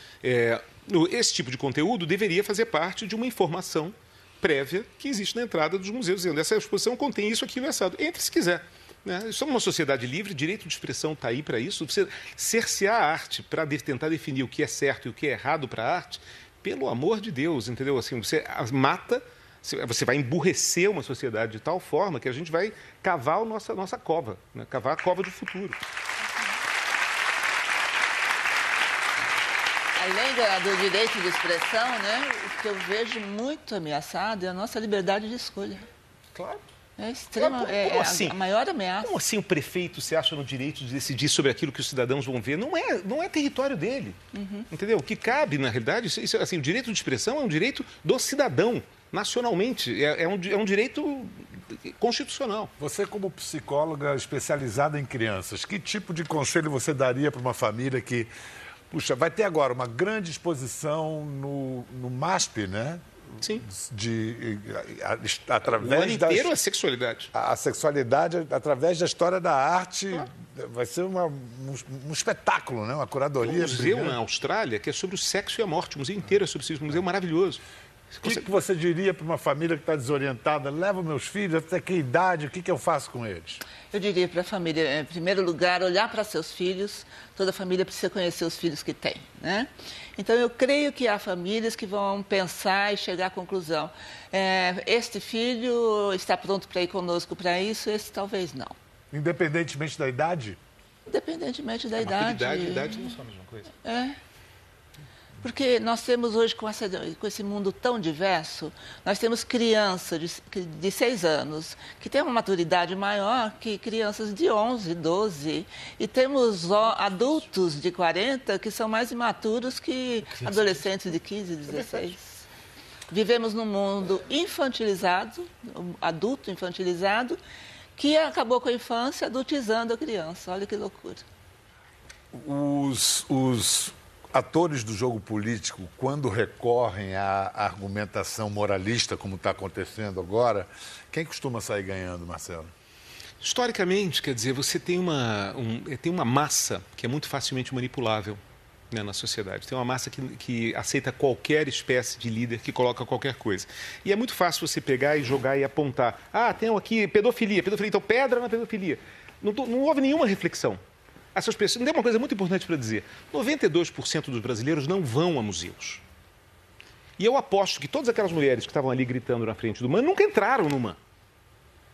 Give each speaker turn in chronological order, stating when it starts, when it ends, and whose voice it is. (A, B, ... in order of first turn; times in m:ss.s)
0:00.2-0:25.8 A
0:30.0-0:35.8 B
0:36.3-0:36.6 A
0:37.0-0:39.2 B
0:37.4-0:38.4 A
0:39.0-0:52.7 A
0:44.3-0:44.6 B
0:52.8-0:58.3 C
0:58.9-1:03.0 C
1:03.4-1:03.6 A
1:03.6-1:06.5 C
1:05.7-1:07.3 A
1:07.3-1:14.2 C
1:13.4-1:17.6 A
1:18.1-1:18.5 A
1:18.2-1:23.6 C
1:23.9-1:38.8 B
1:39.1-1:40.6 C
1:41.1-1:43.1 B
1:42.0-1:43.7 A
1:43.8-1:44.2 B
1:45.4-2:02.4 B
2:03.1-2:07.4 B
2:08.0-2:11.2 B
2:12.3-2:22.7 C
2:23.4-2:28.4 A
2:28.9-2:40.8 A
2:41.3-2:46.0 A
2:47.2-2:51.0 A